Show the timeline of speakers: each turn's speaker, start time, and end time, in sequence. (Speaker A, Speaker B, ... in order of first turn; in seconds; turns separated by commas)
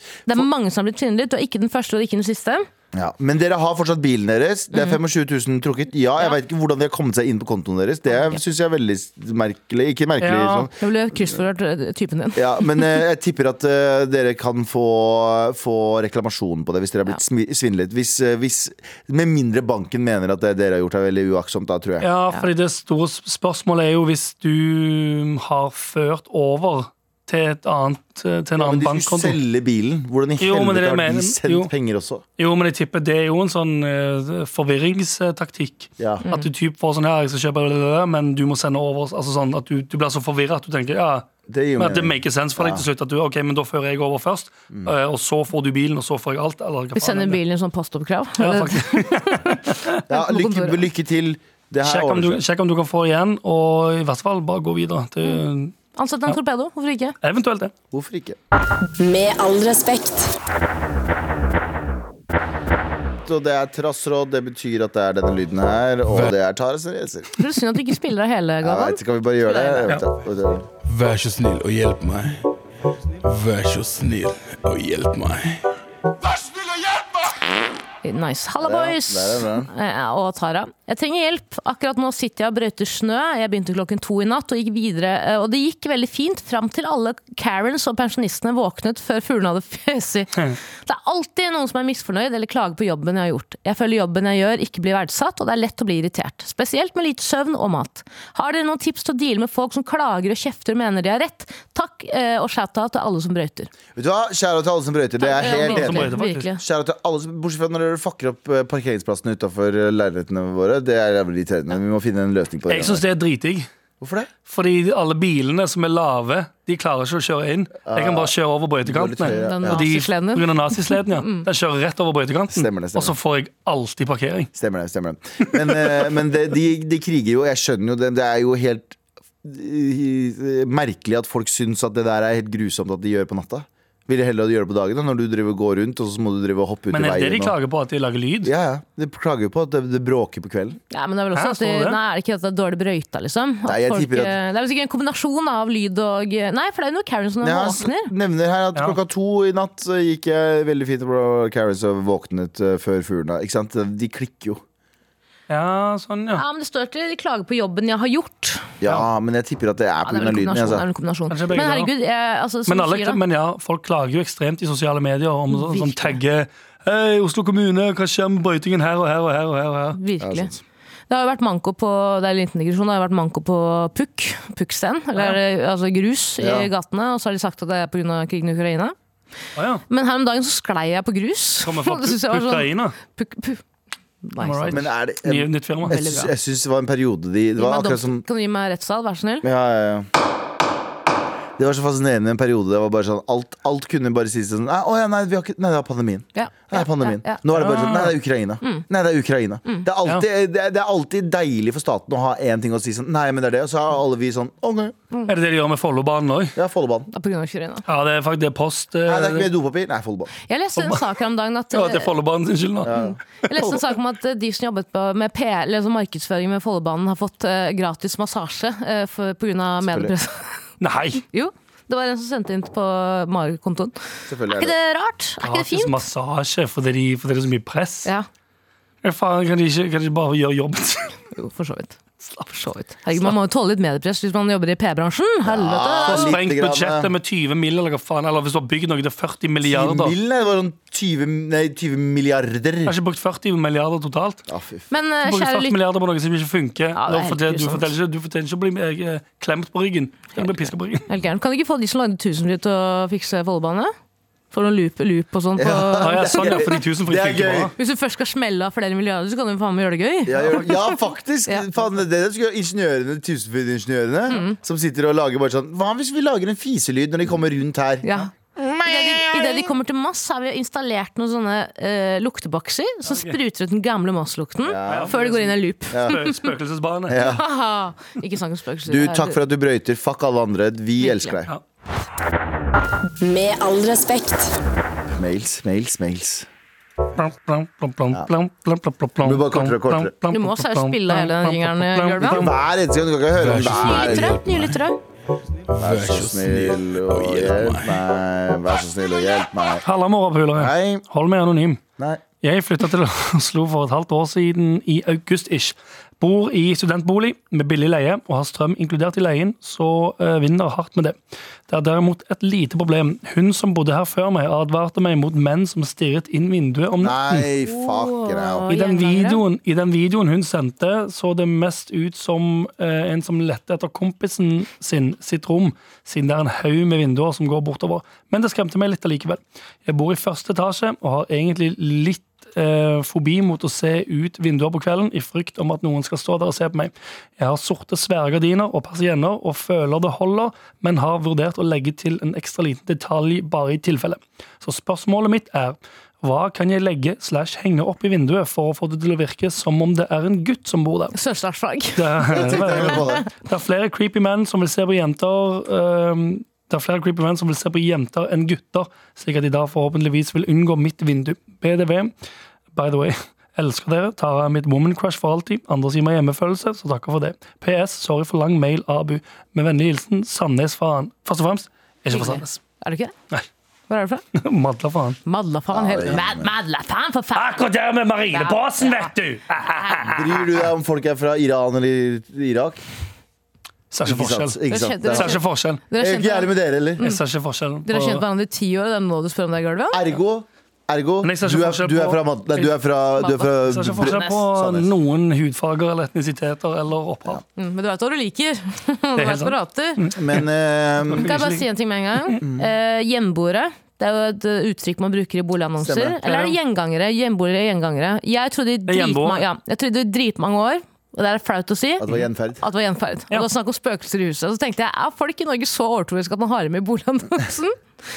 Speaker A: 0.3-2.7, Speaker B: 2.9-10.7, Speaker A: 8.1-8.4, Speaker C: 10.2-10.7, Speaker A: 10.7-13.0, Speaker B: 12.3-22.1, Speaker C: 22.0-29.4, Speaker B: 28.6-32.2, Speaker C: 30.4-31.7, Speaker C: 32.4-47.4, Speaker B: 36.0-36.2, Speaker B: 41.5-42.9, Speaker A: 47.0-50.8, Speaker C: 48.4-50.0, Speaker B: 50.1-52.4, Speaker C: 51.8-55.8, Speaker A: 56.0-57.2, Speaker C: 57.2-57.7, Speaker B: 57.9-58.4, Speaker D: 59.0-60.3, Speaker B: 63.2-67.3, Speaker A: 67.4-70.0, Speaker B: 68.6-70.7, Speaker E: 70.8-72.5, Speaker E: 73.2-75.7, Speaker A: 78.0-103.7, Speaker B: 78.6-79.7, Speaker B: 104.0-113.0, Speaker A: 105.2-106.6, Speaker C: 105.4-106.5, Speaker C: 112.7-113.7, Speaker B: 114.0-114.3, Speaker C: 114.5-124.5, Speaker B: 117.8-118.3, Speaker B: 118.8-119.8, Speaker A: 119.2-121.5, Speaker B: 122.5-123.2, Speaker B: 124.5-137.5, Speaker C: 136.9-138.5, Speaker B: 138.4-140.8, Speaker A: 140.9-148.1, Speaker C: 141.3-142.0, Speaker B: 143.7-144.4, Speaker B: 147.4-154.6, Speaker C: 155.5-156.4, Speaker A: 156.3-158.7, Speaker B: 158.8-160.8, Speaker A: 160.0-163.2, Speaker C: 161.3-161.9, Speaker C: 162.7-170.0, Speaker A: 165.5-166.2, Speaker A: 169.9-170.5, Speaker B: 170.2-170.6, Speaker A: 171.1-178.9, Speaker B: 176.4-176.7, Speaker C: 179.6-179.8, Speaker A: 179.9-183.6, Speaker C: 181.7-183.0, Speaker A: 184.2-184.8, Speaker C: 184.4-185.9, Speaker B: 184.7-188.2, Speaker A: 185.9-186.3, Speaker A: 187.6-189.5, Speaker B: 189.4-190.1, Speaker B: 191.6-205.0, Speaker A: 196.3-197.4, Speaker C: 197.5-198.2, Speaker C: 205.3-206.6, Speaker B: 206.6-207.1, Speaker A: 207.1-207.8, Speaker C: 207.9-209.5, Speaker B: 209.1-210.3, Speaker A: 210.5-212.1, Speaker C: 210.8-211.0, Speaker C: 211.7-213.0, Speaker B: 212.8-213.2, Speaker A: 212.9-220.6, Speaker B: 219.8-220.1, Speaker C: 220.8-221.2, Speaker A: 221.3-226.0, Speaker B: 224.3-224.7, Speaker C: 225.4-228.1, Speaker C: 229.0-231.2, Speaker A: 231.3-236.4, Speaker B: 235.4-237.1, Speaker C: 236.1-240.2, Speaker B: 239.6-242.9, Speaker C: 242.9-244.4, Speaker B: 244.5-244.9, Speaker A: 244.9-245.8, Speaker C: 245.2-251.1, Speaker A: 246.9-247.9, Speaker A: 251.1-253.9, Speaker A: 254.5-256.6, Speaker B: 255.6-257.7, Speaker C: 256.0-257.7, Speaker A: 257.8-260.9, Speaker B: 260.3-269.7, Speaker A: 264.3-264.6, Speaker A: 268.0-276.4, Speaker C: 273.1-273.4, Speaker B: 274.6-275.1, Speaker C: 274.9-277.2, Speaker B: 275.9-276.2, Speaker B: 277.1-277.4, Speaker A: 277.2-279.4, Speaker B: 278.9-281.5, Speaker A: 281.0-281.4, Speaker D: 283.2-284.6, Speaker B: 285.1-286.5, Speaker C: 287.2-292.6, Speaker B: 289.2-290.1, Speaker A: 290.3-292.5, Speaker B: 292.2-294.4, Speaker E: 293.3-294.9, Speaker A: 293.7-295.0, Speaker E: 295.7-298.0, Speaker B: 295.8-299.9, Speaker C: 299.8-301.8, Speaker B: 300.6-301.0, Speaker C: 302.4-311.2, Speaker C: 311.7-317.5, Speaker B: 317.0-318.7, Speaker A: 317.7-319.4, Speaker C: 318.7-351.1, Speaker A: 351.1-353.2, Speaker C: 352.0-362.1, Speaker B: 352.3-353.2, Speaker C: 362.7-372.6, Speaker A: 372.1-373.1, Speaker A: 373.9-374.2, Speaker C: 374.3-375.2, Speaker A: 375.3-377.7, Speaker B: 375.7-376.5, Speaker C: 377.3-380.5, Speaker A: 378.3-379.1, Speaker A: 379.7-380.1, Speaker B: 380.0-382.8, Speaker C: 383.9-385.8, Speaker B: 384.0-385.4, Speaker A: 384.7-387.2, Speaker B: 386.0-387.1, Speaker C: 387.0-388.2, Speaker A: 387.9-390.1, Speaker B: 389.9-394.9, Speaker C: 391.2-392.7, Speaker A: 393.2-394.4, Speaker C: 393.6-397.4, Speaker A: 397.6-400.0, Speaker C: 399.2-400.5, Speaker B: 400.1-401.3, Speaker C: 401.1-401.6, Speaker A: 401.1-412.1, Speaker B: 402.4-402.7, Speaker B: 405.8-406.2, Speaker C: 406.2-406.6, Speaker C: 408.9-409.4, Speaker B: 412.0-412.6, Speaker A: 412.6-417.8